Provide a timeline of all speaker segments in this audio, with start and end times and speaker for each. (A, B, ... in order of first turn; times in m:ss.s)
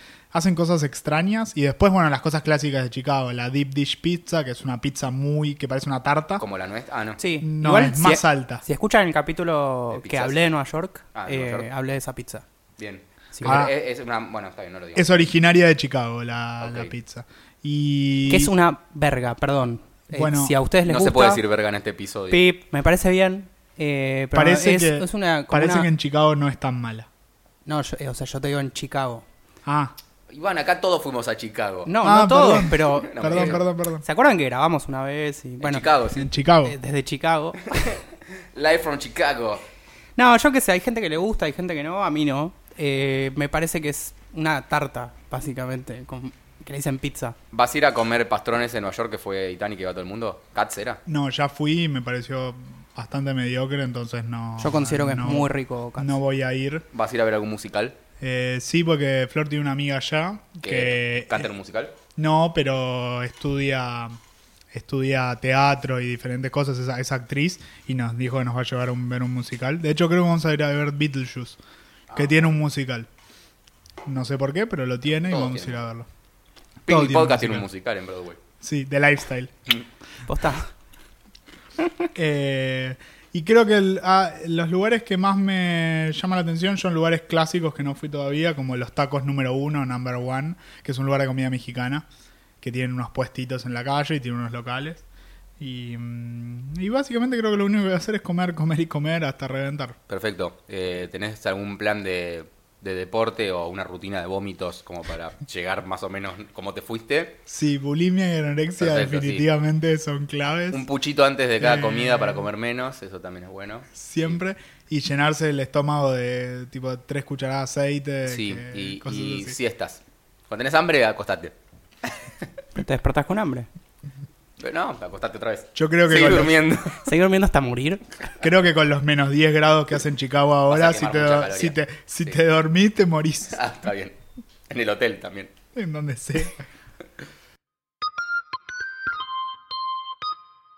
0:00.3-0:06.4 A
0:06.4-0:07.2 B
0:07.2-0:12.4 C
0:07.4-0:08.6 A
0:09.9-0:10.4 B
0:11.1-0:11.7 B
0:12.8-0:15.2 B
0:13.4-0:13.7 A
0:14.9-0:18.5 A
0:16.6-0:16.9 B
0:18.3-0:21.4 C
0:20.1-0:20.5 A
0:20.8-0:22.4 B
0:22.3-0:25.9 C
0:24.3-0:27.1 A
0:27.6-0:29.2 C
0:29.6-0:29.9 A
0:30.3-0:31.9 B
0:31.8-0:35.9 C
0:32.0-0:34.0 A
0:32.5-0:33.6 B
0:35.6-0:36.3 B
0:36.1-0:36.7 A
0:36.6-0:37.9 C
0:37.7-0:39.6 B
0:40.2-0:47.4 C
0:47.5-0:51.0 B
0:51.0-0:56.8 A
0:54.6-0:56.2 C
0:56.9-0:58.0 B
0:58.2-1:01.5 A
1:00.6-1:01.9 B
1:02.2-1:04.2 A
1:04.7-1:11.6 A
1:12.1-1:12.4 B
1:12.1-1:13.1 A
1:14.0-1:16.1 A
1:15.3-1:15.8 B
1:16.9-1:17.6 A
1:16.9-1:18.4 B
1:18.6-1:19.5 A
1:20.3-1:20.7 C
1:21.8-1:22.1 C
1:22.1-1:32.1 A
1:32.6-1:35.0 A
1:35.6-1:40.0 A
1:40.1-1:47.4 B
1:47.5-1:50.8 A
1:48.8-1:49.4 B
1:50.7-1:54.4 B
1:51.6-1:52.5 A
1:53.9-1:59.6 A
1:58.3-2:01.5 B
2:02.7-2:03.7 C
2:04.6-2:07.0 B
2:05.7-2:06.6 A
2:07.0-2:08.1 C
2:08.4-2:13.6 A
2:10.7-2:12.4 B
2:13.5-2:14.2 B
2:14.7-2:15.5 B
2:15.7-2:16.6 A